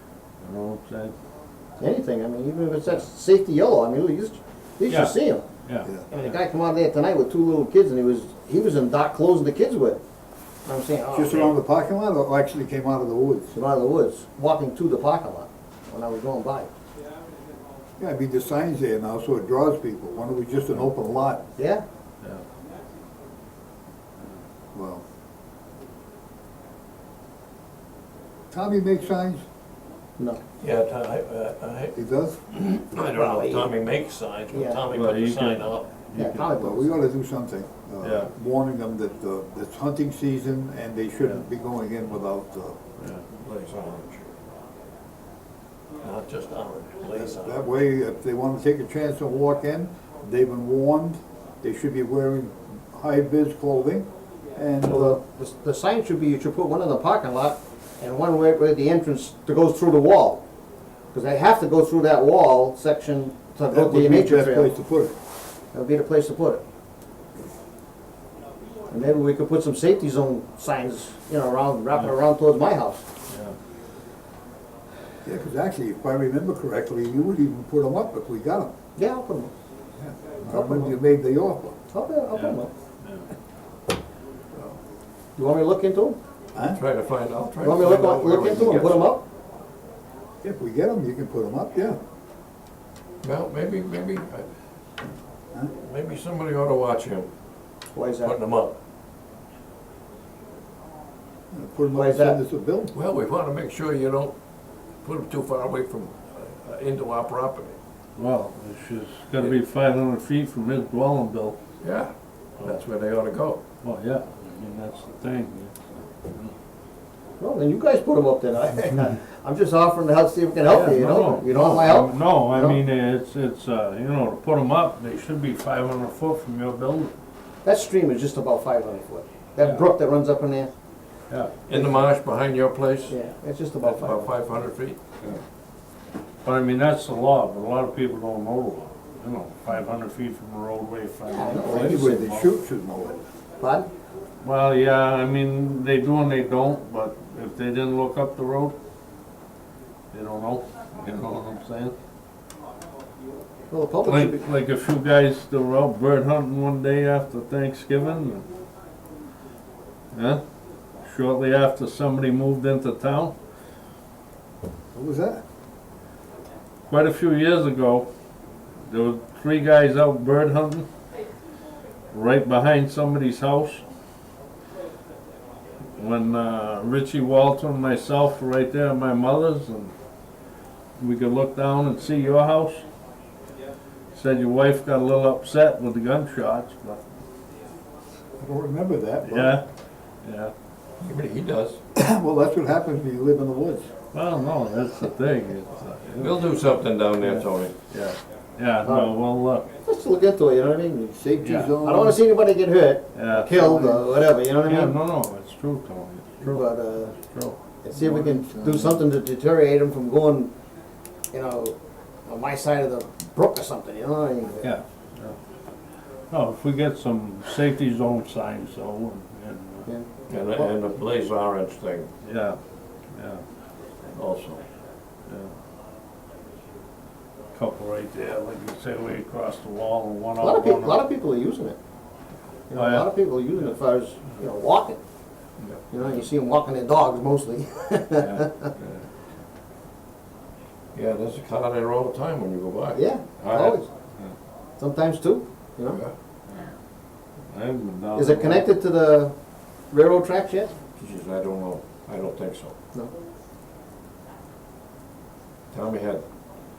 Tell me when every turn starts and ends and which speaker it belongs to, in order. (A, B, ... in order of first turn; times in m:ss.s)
0:00.4-0:01.1 A
0:01.8-0:05.4 B
0:04.9-0:05.9 A
0:06.1-0:10.0 B
0:10.7-0:11.6 B
0:11.1-0:13.5 C
0:13.5-0:16.7 B
0:18.0-0:21.4 C
0:21.6-0:21.8 B
0:24.7-0:25.0 C
0:28.5-0:29.4 C
0:30.6-0:32.0 D
0:31.9-0:32.4 C
0:32.5-0:35.9 D
0:33.0-0:33.7 B
0:34.5-0:34.8 B
0:34.9-0:36.7 A
0:36.2-0:37.0 B
0:36.4-0:42.8 C
0:38.0-0:38.3 A
0:43.0-0:43.2 A
0:43.4-0:44.3 D
0:46.0-0:47.7 D
0:47.1-0:55.2 C
0:54.8-1:00.4 B
1:01.1-1:04.8 B
1:03.7-1:05.1 C
1:05.7-1:06.6 B
1:08.9-1:13.1 B
1:13.3-1:13.6 A
1:15.2-1:18.7 C
1:19.0-1:19.5 B
1:20.0-1:21.8 C
1:20.5-1:20.9 B
1:21.9-1:22.7 B
1:22.3-1:23.3 A
1:25.4-1:26.2 B
1:26.6-1:26.8 C
1:26.7-1:29.1 D
1:27.6-1:29.2 B
1:30.4-1:32.0 C
1:33.2-1:34.4 D
1:35.8-1:37.3 D
1:37.9-1:38.4 B
1:38.2-1:38.8 D
1:41.5-1:42.9 C
1:41.9-1:42.4 B
1:42.9-1:44.3 D
1:45.0-1:47.8 D
1:48.2-1:51.6 A
1:51.8-1:53.6 D
1:53.8-1:56.5 A
1:57.4-2:02.8 B
2:00.6-2:07.2 A
2:07.6-2:10.7 B
2:11.3-2:11.6 A
2:11.7-2:13.2 D
2:13.1-2:14.3 B
2:13.8-2:15.0 D
2:16.4-2:22.4 A
2:21.3-2:22.3 B
2:21.7-2:23.2 C
2:23.6-2:23.9 B
2:24.4-2:28.8 A
2:30.1-2:32.0 A
2:33.7-2:34.5 B
2:34.0-2:38.5 A
2:40.1-2:40.4 A
2:41.0-2:43.4 A
2:44.9-2:45.4 C
2:46.9-2:48.1 A
2:48.8-2:50.9 A
2:52.1-2:53.8 A
2:56.0-2:59.9 A
3:01.0-3:02.8 A
3:04.1-3:07.0 A
3:08.4-3:09.6 C
3:09.2-3:09.6 A
3:10.2-3:10.5 A
3:11.0-3:11.8 D
3:12.0-3:13.9 C
3:14.1-3:16.4 A
3:16.2-3:17.7 D
3:17.2-3:19.7 A
3:18.8-3:19.2 B
3:19.8-3:25.0 B
3:21.1-3:22.2 C
3:21.4-3:21.7 A
3:23.1-3:27.6 A
3:26.4-3:27.1 B
3:27.8-3:30.5 B
3:27.9-3:29.0 C
3:31.3-3:34.8 B
3:34.6-3:35.4 A
3:36.3-3:39.9 A
3:39.9-3:40.7 B
3:40.3-3:42.1 D
3:42.2-3:42.6 A
3:43.1-3:43.4 A
3:44.2-3:44.6 D
3:45.3-3:45.5 A
3:47.5-3:51.0 A
3:50.4-3:51.8 B
3:52.7-3:55.0 B
3:52.8-3:53.7 A
3:55.9-3:58.7 B
3:58.2-3:59.1 A
4:00.9-4:03.0 D
4:02.9-4:03.9 B
4:03.4-4:04.4 A
4:04.8-4:06.0 B
4:07.5-4:08.7 A
4:08.2-4:09.3 B
4:09.9-4:10.7 B
4:11.0-4:12.8 D
4:15.7-4:16.2 D